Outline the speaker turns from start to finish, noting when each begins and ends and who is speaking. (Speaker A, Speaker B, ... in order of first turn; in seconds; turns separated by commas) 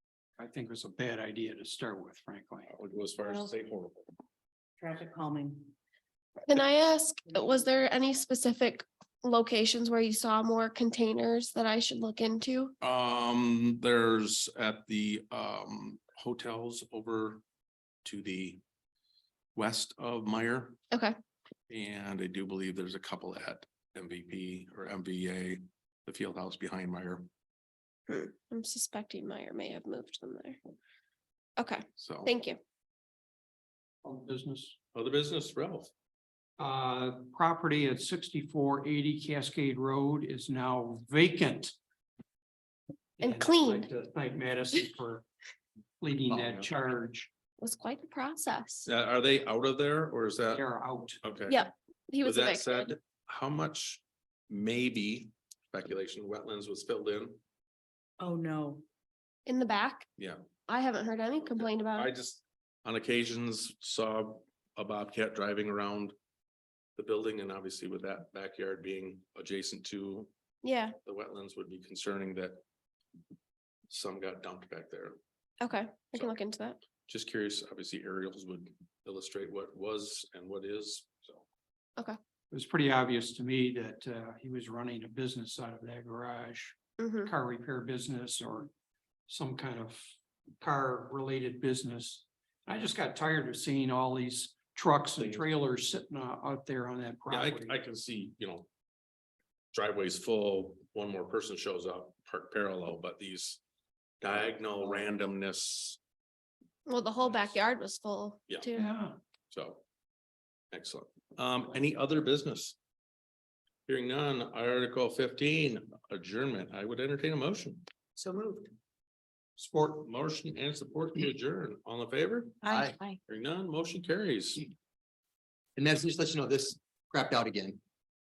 Speaker A: 0.4-2.7, Speaker B: 2.7-4.1, Speaker C: 3.2-3.5, Speaker C: 4.8-5.7, Speaker D: 6.5-12.7, Speaker B: 12.8-17.4, Speaker B: 18.1-18.6, Speaker B: 19.6-20.8, Speaker B: 21.7-27.3, Speaker D: 28.1-30.6, Speaker D: 31.6-32.6, Speaker B: 32.0-32.3, Speaker A: 34.0-34.8, Speaker B: 34.9-35.9, Speaker A: 36.6-41.8, Speaker A: 43.2-45.3, Speaker D: 43.2-43.9, Speaker A: 46.0-47.3, Speaker D: 47.6-48.9, Speaker B: 48.9-50.6, Speaker A: 50.5-51.2, Speaker B: 51.2-51.6, Speaker D: 51.5-52.9, Speaker B: 52.2-57.4, Speaker C: 58.2-58.9, Speaker D: 59.5-60.1, Speaker D: 60.7-62.1, Speaker B: 61.4-66.2, Speaker B: 67.0-70.3, Speaker D: 70.6-71.0, Speaker B: 71.0-72.6, Speaker B: 73.9-75.2, Speaker D: 75.6-76.8, Speaker B: 77.1-81.4, Speaker A: 82.5-88.7, Speaker D: 87.0-87.3, Speaker A: 89.3-90.0, Speaker A: 90.6-97.8, Speaker B: 95.2-95.5, Speaker B: 97.3-98.7, Speaker B: 99.7-103.6, Speaker B: 104.2-106.0, Speaker D: 106.9-108.9, Speaker A: 108.7-109.2, Speaker B: 109.5-109.8, Speaker B: 110.7-112.8, Speaker B: 113.9-117.9, Speaker C: 118.3-118.6, Speaker A: 119.6-119.9, Speaker B: 119.8-122.6, Speaker C: 122.6-123.2, Speaker E: 122.7-123.0, Speaker B: 123.3-124.7, Speaker E: 125.8-127.8